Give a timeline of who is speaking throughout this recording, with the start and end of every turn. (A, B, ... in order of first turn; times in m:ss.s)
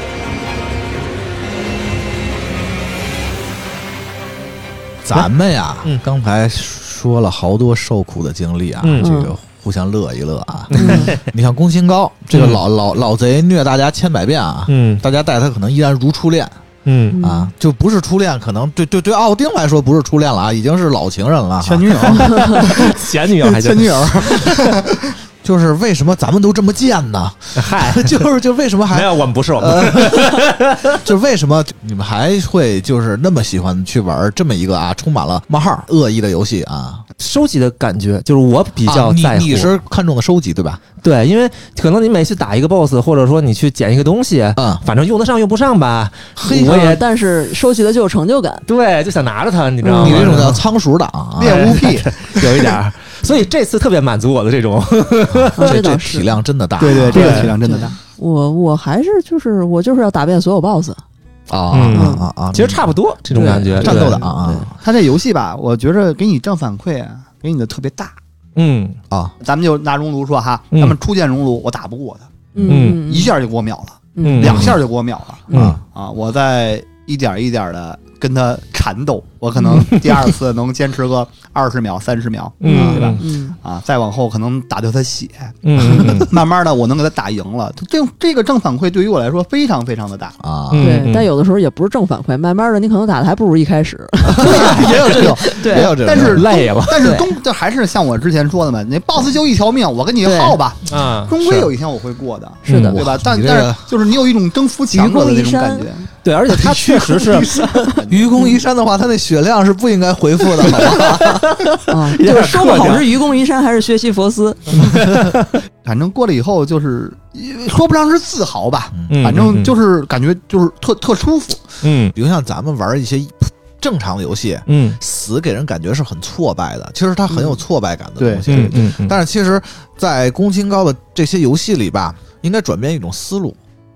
0:05.0-0:16.6 A
0:08.8-0:09.1 B
0:09.0-0:09.3 C
0:10.7-0:11.2 B
0:10.7-0:11.1 C
0:12.3-0:12.6 B
0:14.7-0:15.0 B
0:16.9-0:17.2 B
0:17.1-0:17.5 C
0:17.2-0:22.3 A
0:21.6-0:25.1 D
0:22.2-0:24.8 B
0:25.4-0:30.5 A
0:27.6-0:28.3 B
0:28.9-0:31.0 B
0:31.0-0:37.0 A
0:37.2-0:39.7 B
0:38.8-0:40.8 A
0:41.0-0:47.0 B
0:44.6-0:44.8 A
0:46.4-0:46.9 A
0:46.4-0:48.6 C
0:48.7-0:50.6 B
0:49.8-0:50.3 C
0:50.0-0:51.8 A
0:51.4-0:52.8 D
0:51.4-0:55.9 B
0:55.3-0:57.5 A
0:55.6-0:56.3 C
0:56.8-0:58.0 D
0:56.9-1:01.0 C
0:57.1-0:57.5 B
1:01.5-1:02.9 A
1:01.7-1:04.2 B
1:01.9-1:02.2 C
1:03.3-1:04.7 C
1:03.8-1:04.8 A
1:04.8-1:08.2 D
1:08.6-1:09.0 B
1:09.4-1:30.4 D
1:12.6-1:13.3 C
1:12.6-1:13.0 B
1:14.2-1:14.7 C
1:14.2-1:14.8 B
1:15.5-1:15.8 A
1:19.7-1:20.3 B
1:22.6-1:23.2 B
1:22.6-1:23.6 C
1:25.6-1:26.4 B
1:30.4-1:31.0 A
1:30.7-1:31.3 B
1:30.8-1:35.9 C
1:34.3-1:36.4 A
1:34.4-1:48.5 D
1:34.5-1:35.5 B
1:36.2-1:37.2 B
1:37.0-1:37.3 C
1:40.2-1:40.6 C
1:40.9-1:41.7 B
1:42.7-1:43.0 C
1:42.7-1:43.0 B
1:42.9-1:43.8 A
1:44.9-1:45.9 C
1:46.2-1:47.7 B
1:47.4-1:47.8 C
1:48.1-1:51.4 A
1:50.7-1:53.1 B
1:51.9-1:55.0 C
1:54.7-1:55.5 B
1:55.8-2:01.6 D
1:59.0-1:59.4 A
1:59.1-1:59.8 B
2:01.8-2:02.1 B
2:02.1-2:13.6 A
2:04.7-2:05.0 B
2:08.2-2:08.8 D
2:08.5-2:09.2 B